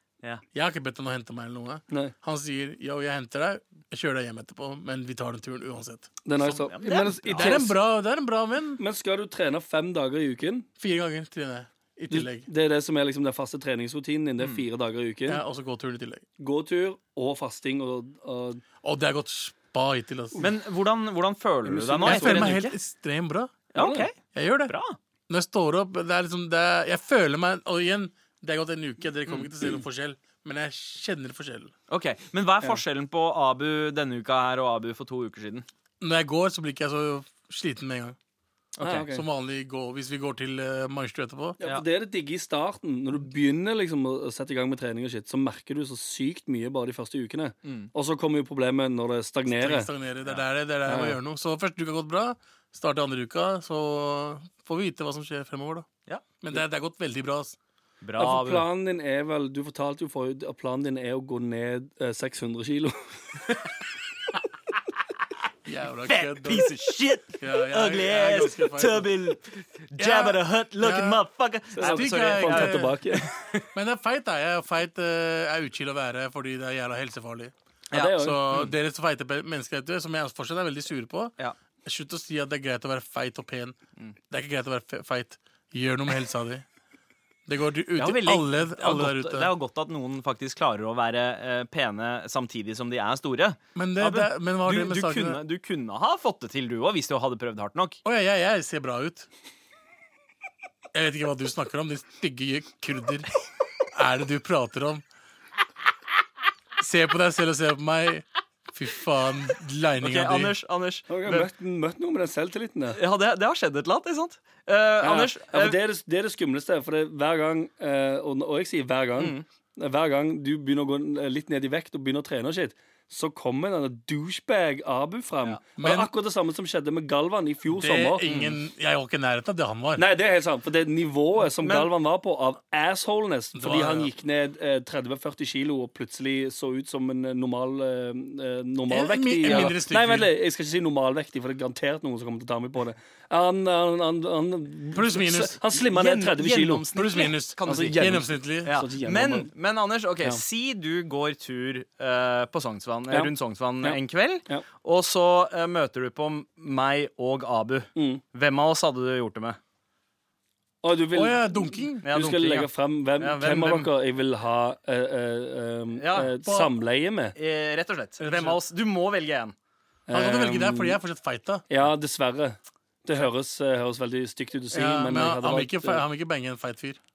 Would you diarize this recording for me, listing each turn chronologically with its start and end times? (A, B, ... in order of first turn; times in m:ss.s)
0:00.5-0:06.1 A
0:06.2-0:07.8 B
0:06.4-0:07.6 C
0:07.3-0:08.8 A
0:08.8-0:10.7 B
0:10.8-0:12.5 A
0:12.1-0:15.4 B
0:14.4-0:14.6 C
0:15.3-0:16.2 A
0:16.4-0:18.6 B
0:18.8-0:20.4 A
0:20.4-0:22.8 C
0:21.6-0:22.6 B
0:22.0-0:23.6 A
0:23.7-0:25.0 C
0:23.8-0:24.1 B
0:24.3-0:24.7 A
0:25.3-0:31.7 A
0:31.9-0:35.7 C
0:36.0-0:38.2 A
0:38.8-0:39.1 C
0:38.8-0:39.2 B
0:38.9-0:41.6 A
0:41.6-0:49.9 B
0:47.6-0:47.9 C
0:49.5-0:55.9 A
0:50.9-0:51.2 B
0:56.4-0:57.6 A
0:58.0-0:58.7 C
0:58.2-1:03.2 B
1:05.7-1:06.7 A
1:06.0-1:13.6 C
1:07.4-1:09.1 A
1:10.0-1:11.2 A
1:11.7-1:13.3 B
1:11.8-1:13.0 A
1:13.7-1:21.3 A
1:17.9-1:18.4 B
1:17.9-1:18.7 C
1:21.8-1:23.8 A
1:24.3-1:26.6 A
1:27.5-1:29.5 A
1:28.0-1:38.0 C
1:33.8-1:35.4 A
1:38.0-1:39.3 A
1:40.9-1:43.3 A
1:43.9-1:45.0 A
1:46.8-1:50.6 A
1:50.0-1:51.5 C
1:51.1-1:53.0 B
1:53.0-1:55.8 C
1:55.0-2:08.2 B
1:59.2-1:59.4 C
2:05.8-2:06.1 A
2:07.7-2:10.0 A
2:08.2-2:08.6 C
2:10.0-2:26.9 B
2:11.6-2:11.9 C
2:13.6-2:14.1 A
2:18.9-2:20.3 A
2:19.5-2:19.7 C
2:24.9-2:25.6 A
2:25.7-2:39.6 C
2:26.9-2:28.7 A
2:27.6-2:29.5 B
2:33.8-2:34.6 B
2:38.0-2:38.2 B
2:40.8-2:47.4 B
2:41.1-2:42.1 A
2:42.0-2:43.9 C
2:46.0-2:46.4 C
2:46.4-2:46.7 A
2:47.4-2:49.5 C
2:48.2-2:48.6 A
2:50.1-2:51.0 B
2:50.1-2:51.8 A
2:51.7-2:56.0 B
2:54.7-2:57.0 A